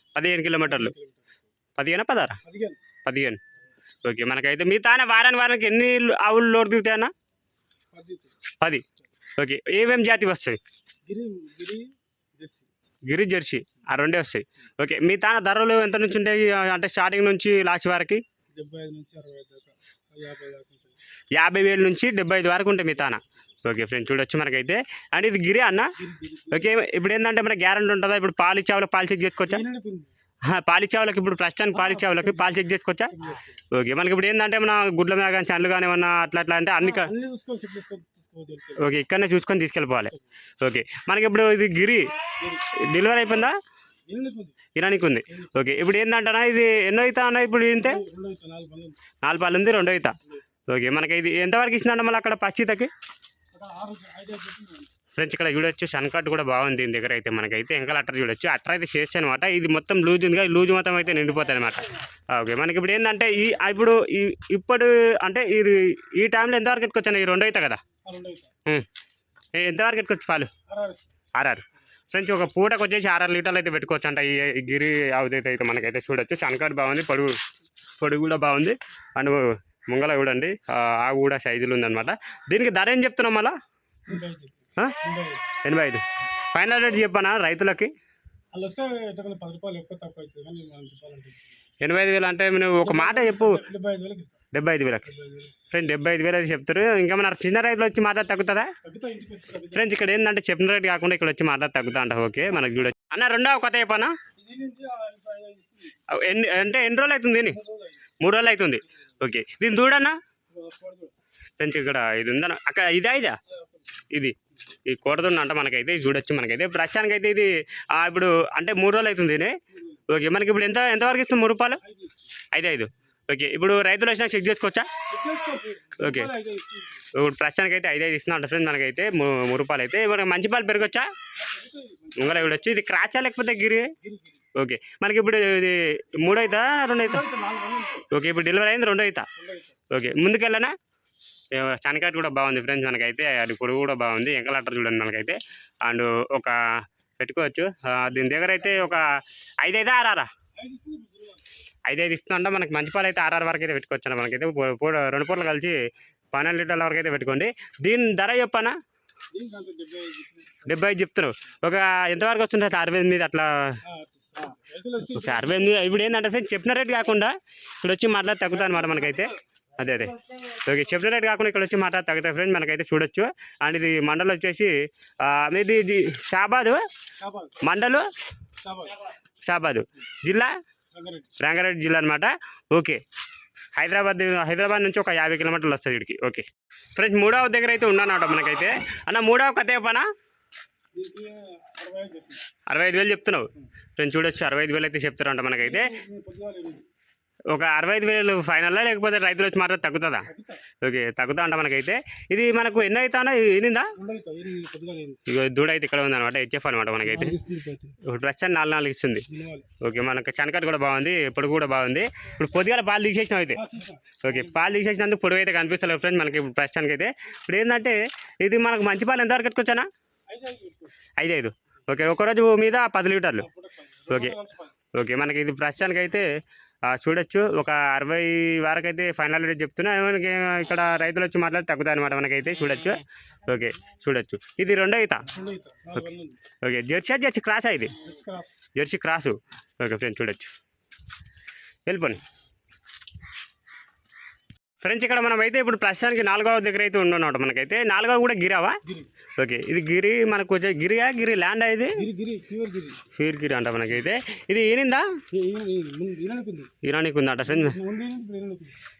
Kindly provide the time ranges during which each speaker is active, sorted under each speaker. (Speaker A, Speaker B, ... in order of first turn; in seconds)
Speaker A: 0.1-0.9, 1.8-2.4, 3.0-3.4, 4.0-7.1, 9.4-10.6, 13.1-18.2, 21.4-25.9, 26.5-29.6, 30.4-33.1, 33.7-37.1, 38.8-42.0, 42.7-43.5, 44.7-48.0, 49.2-50.1, 50.7-52.9, 55.1-67.8, 69.5-70.5, 71.4-77.3, 78.0-83.5, 85.6-86.0, 86.5-87.9, 91.8-93.6, 94.5-95.1, 95.7-98.7, 99.7-104.1, 106.1-107.6, 108.2-110.2, 111.6-113.4, 114.9-119.5, 120.1-121.8, 122.5-124.9, 126.0-126.3, 127.1-131.1, 132.2-133.9, 134.6-137.2, 138.1-139.2, 139.9-140.7, 141.5-146.6, 147.2-149.1, 149.6-150.3, 151.8-155.8, 156.3-158.7, 160.6-163.8, 165.1-176.8, 177.6-178.1, 179.4-180.5, 181.4-183.0, 183.7-186.4, 186.9-190.1, 192.7-195.9, 197.5-200.3, 200.8-203.9, 205.3-207.4, 208.0-209.2, 209.8-213.6, 214.2-219.8, 221.2-223.5, 224.1-224.3, 224.9-226.2, 226.9-235.3, 236.6-237.9, 238.7-240.5, 241.9-242.2, 244.8-248.8, 249.4-252.0, 253.1-255.1, 256.8-257.8
Speaker B: 0.6-1.2, 2.4-2.8, 7.9-8.3, 11.1-12.7, 18.5-21.0, 26.0-26.7, 29.4-30.1, 31.7-32.6, 33.1-33.6, 36.8-38.9, 42.4-42.7, 44.1-44.6, 47.7-49.0, 53.5-54.9, 68.0-68.5, 70.7-71.0, 84.1-85.5, 88.5-91.5, 92.8-94.4, 95.1-95.6, 98.8-99.9, 104.3-105.9, 107.5-108.0, 110.5-111.1, 113.5-113.8, 121.8-122.3, 125.1-127.1, 131.3-132.7, 134.0-134.4, 137.0-138.1, 139.3-139.8, 150.6-151.4, 159.3-160.8, 163.8-165.8, 168.6-169.2, 177.2-177.6, 178.6-179.0, 180.9-181.3, 190.9-192.4, 195.6-196.8, 200.3-200.6, 204.0-205.2, 207.0-207.9, 209.3-209.7, 213.5-214.7, 220.3-220.9, 223.4-224.7, 235.3-236.4, 238.0-238.6, 252.0-253.0, 255.3-256.7, 257.4-258.7